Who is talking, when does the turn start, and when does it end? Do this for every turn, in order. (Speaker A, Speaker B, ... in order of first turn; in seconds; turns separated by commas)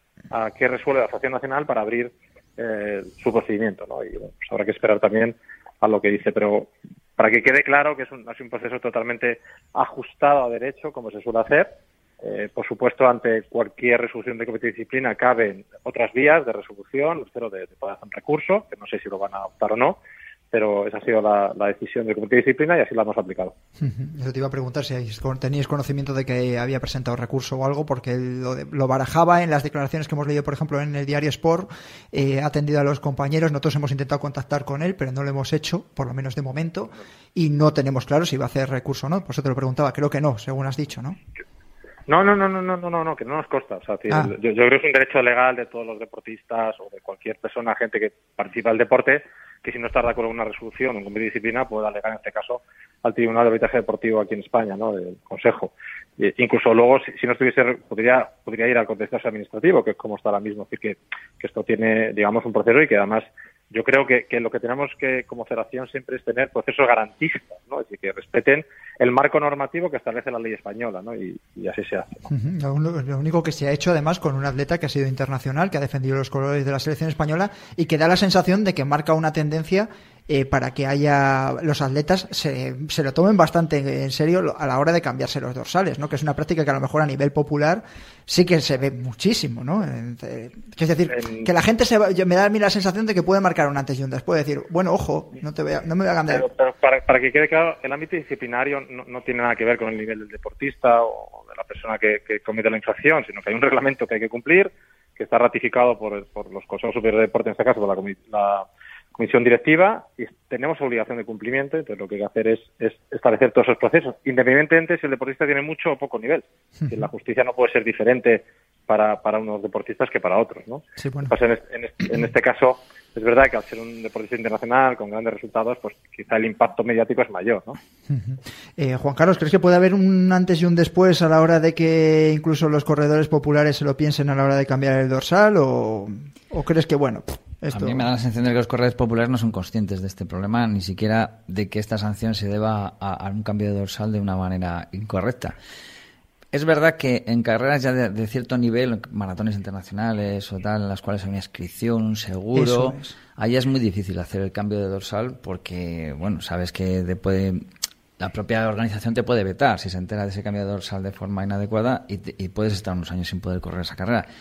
Speaker A: 0.3-20.0, Speaker A: 20.5-23.5, Speaker B: 23.8-41.2, Speaker A: 42.1-72.3, Speaker B: 72.3-96.4, Speaker A: 91.1-91.5, Speaker A: 96.3-127.8, Speaker B: 121.0-121.3, Speaker B: 128.1-138.1, Speaker C: 137.7-145.6, Speaker C: 146.5-157.6, Speaker B: 152.5-153.1, Speaker C: 158.2-164.3